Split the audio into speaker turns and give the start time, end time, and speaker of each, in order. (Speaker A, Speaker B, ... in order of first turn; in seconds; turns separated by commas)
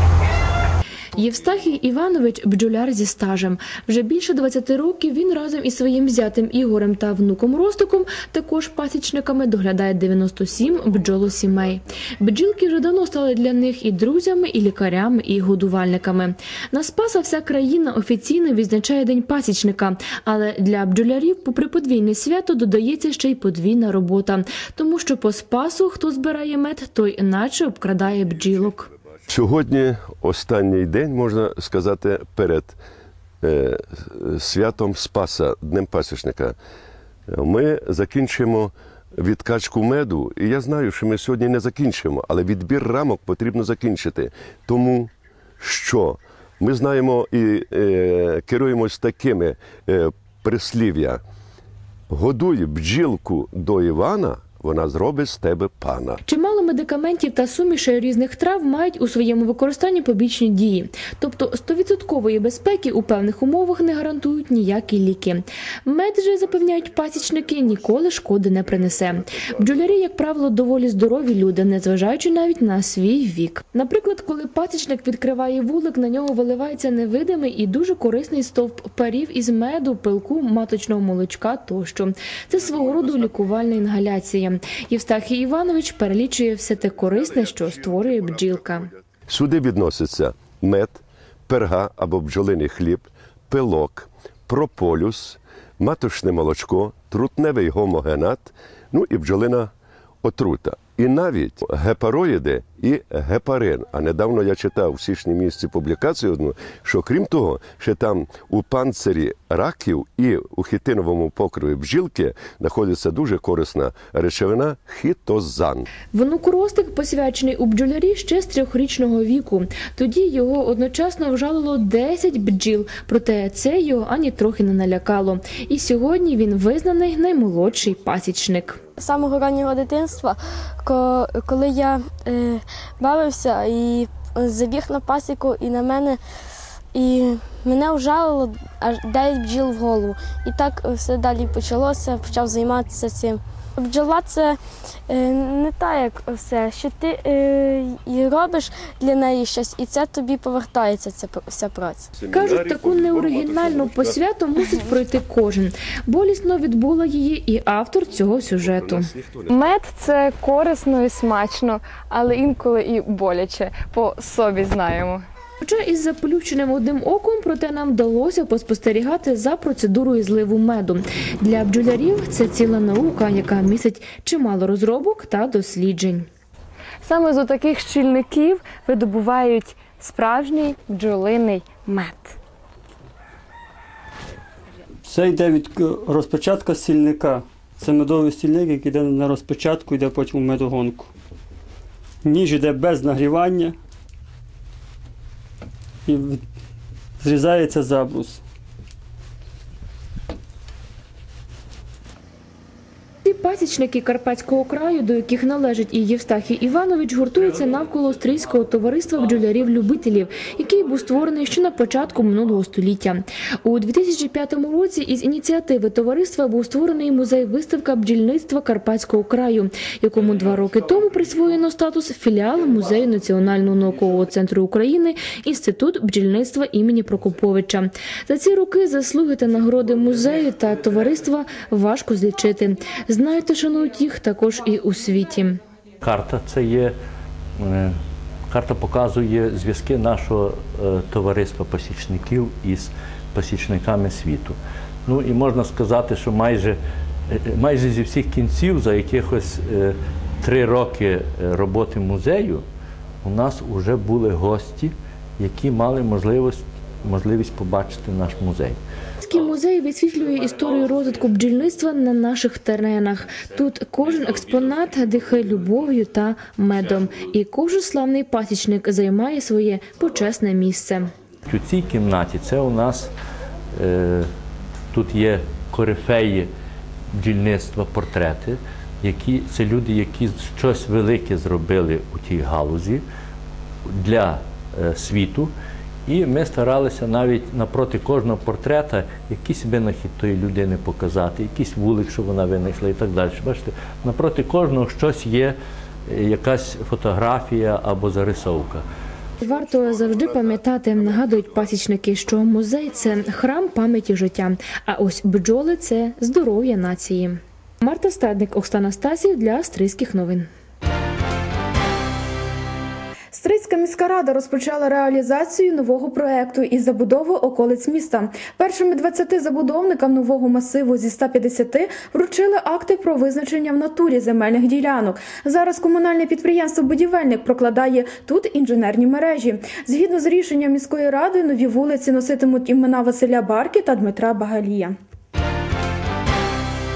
Speaker A: 1.1-28.9, Speaker B: 29.3-32.8, Speaker B: 33.4-36.6, Speaker B: 37.3-51.2, Speaker B: 52.1-56.2, Speaker A: 56.2-88.9, Speaker B: 89.3-99.7, Speaker B: 100.2-115.9, Speaker A: 116.1-128.8, Speaker C: 129.0-136.2, Speaker C: 136.9-152.1, Speaker B: 152.2-154.2, Speaker A: 152.3-159.1, Speaker B: 158.6-159.6, Speaker D: 159.5-165.2, Speaker A: 165.6-176.3, Speaker D: 177.1-182.3, Speaker E: 185.1-191.1, Speaker E: 192.2-193.8, Speaker E: 196.1-196.4, Speaker E: 197.2-198.4, Speaker A: 203.3-235.6, Speaker F: 236.0-236.9, Speaker F: 237.6-237.9, Speaker F: 238.5-252.6, Speaker F: 253.2-258.8, Speaker A: 259.2-271.1, Speaker F: 271.5-273.1, Speaker F: 273.8-274.3, Speaker F: 274.9-276.5, Speaker F: 277.1-283.0, Speaker F: 283.9-285.5, Speaker F: 286.1-295.6, Speaker F: 296.1-298.8, Speaker A: 299.4-310.5, Speaker G: 313.3-335.0